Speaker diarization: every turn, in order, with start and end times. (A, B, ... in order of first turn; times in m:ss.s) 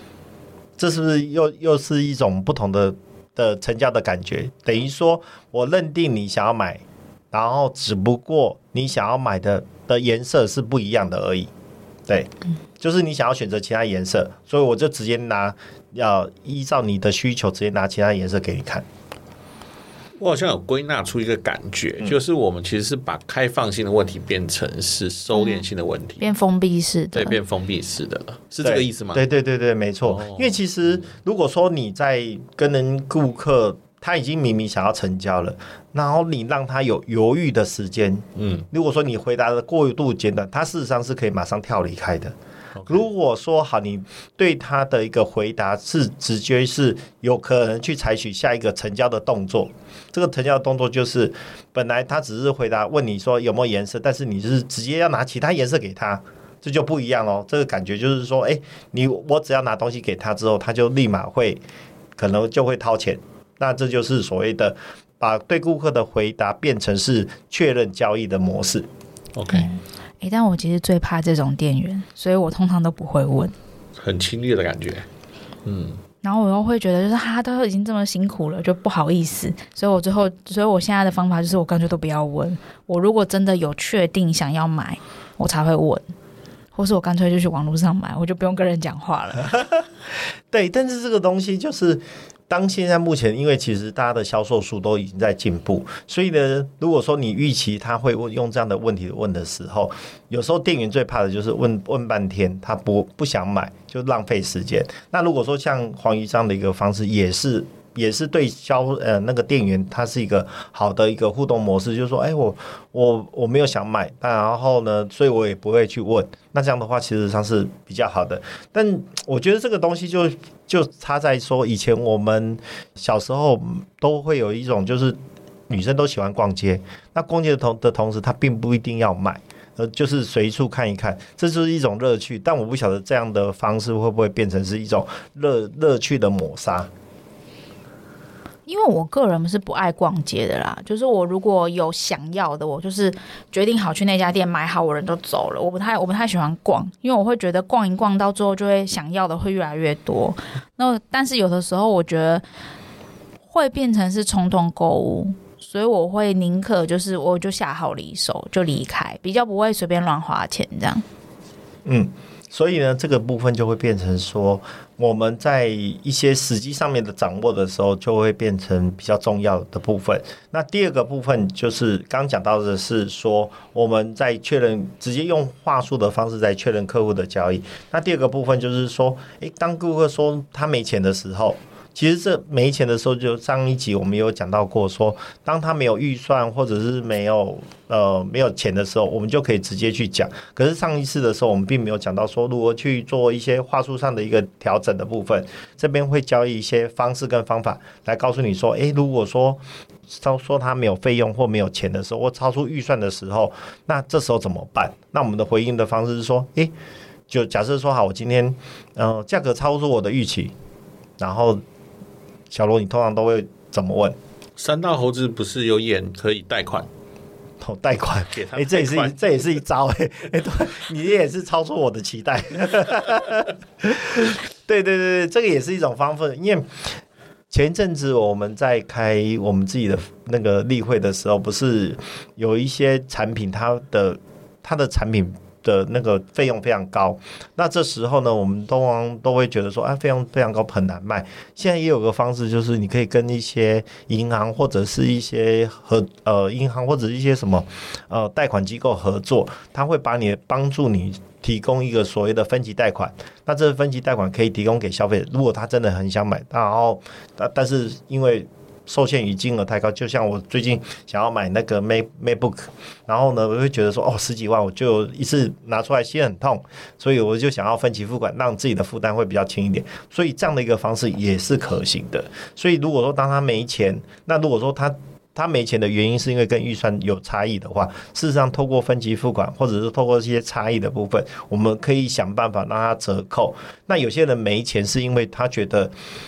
0:00.8-0:11.5 A
0:12.1-0:18.8 A
0:20.2-0:26.3 B
0:25.3-0:25.6 C
0:26.2-0:27.4 C
0:27.1-0:29.2 B
0:28.6-0:42.3 A
0:30.0-0:31.0 B
0:38.4-0:38.7 B
0:42.9-1:01.6 A
1:02.2-1:08.9 A
1:09.3-1:09.7 B
1:09.5-1:13.5 C
1:14.0-1:15.1 B
1:15.6-1:16.0 B
1:16.2-1:26.0 C
1:26.7-1:29.6 C
1:30.5-2:05.2 A
2:05.7-2:16.9 A
2:18.7-2:32.4 C
2:33.5-2:41.0 C
2:41.8-3:26.7 A
3:27.3-3:30.5 A
3:31.2-3:31.6 A
3:32.5-3:34.2 A
3:34.6-3:36.9 B
3:37.6-3:47.0 A
3:38.3-3:39.2 B
3:47.5-4:45.9 A